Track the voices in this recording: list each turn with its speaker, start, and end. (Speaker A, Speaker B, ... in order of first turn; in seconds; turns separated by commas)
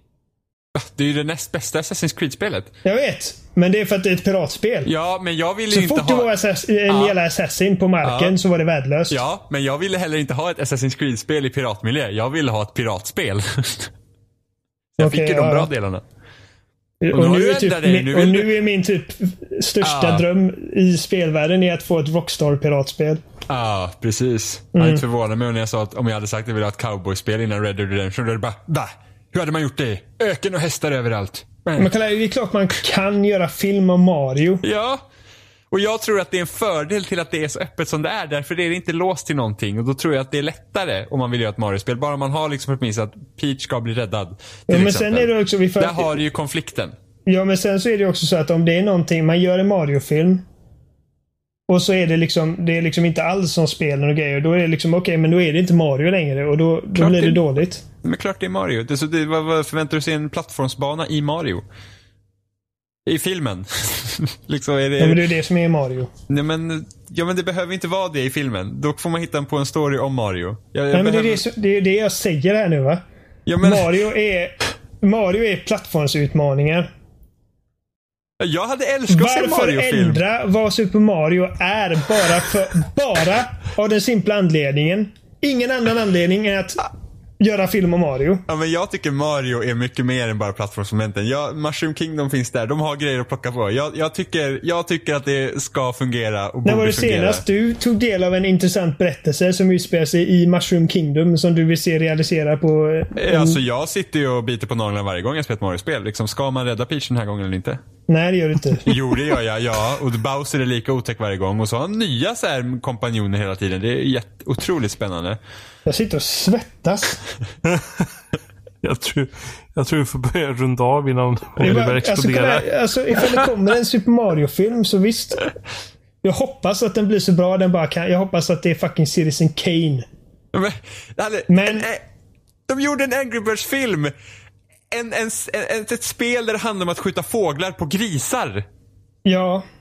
Speaker A: 0.7-2.7, Speaker B: 2.8-4.9, Speaker A: 4.8-6.3, Speaker B: 5.7-9.2, Speaker A: 6.9-7.2, Speaker A: 8.0-8.4, Speaker A: 9.1-13.9, Speaker A: 14.9-16.0, Speaker B: 15.0-15.7, Speaker B: 17.0-23.2, Speaker A: 17.1-18.5, Speaker A: 19.8-20.2, Speaker A: 23.5-31.9, Speaker B: 24.7-25.0, Speaker B: 31.8-34.6, Speaker A: 34.6-35.0, Speaker A: 35.7-46.9, Speaker B: 44.7-46.1, Speaker B: 47.3-50.4, Speaker B: 51.7-57.8, Speaker A: 57.0-61.6, Speaker A: 63.0-65.2, Speaker B: 65.0-66.1, Speaker A: 66.3-71.4, Speaker B: 70.9-73.0, Speaker A: 73.5-74.0, Speaker B: 73.6-76.9, Speaker A: 78.4-80.2, Speaker B: 79.1-86.8, Speaker B: 87.4-88.4, Speaker A: 88.5-97.4, Speaker B: 96.6-103.6, Speaker A: 103.2-107.8, Speaker B: 108.1-108.9, Speaker A: 108.8-115.4, Speaker B: 115.8-117.2, Speaker C: 117.6-118.2, Speaker C: 118.8-122.7, Speaker B: 121.6-125.5, Speaker B: 126.2-130.1, Speaker A: 130.5-132.0, Speaker B: 131.5-131.9, Speaker A: 132.7-134.1, Speaker A: 134.9-138.7, Speaker B: 139.2-139.6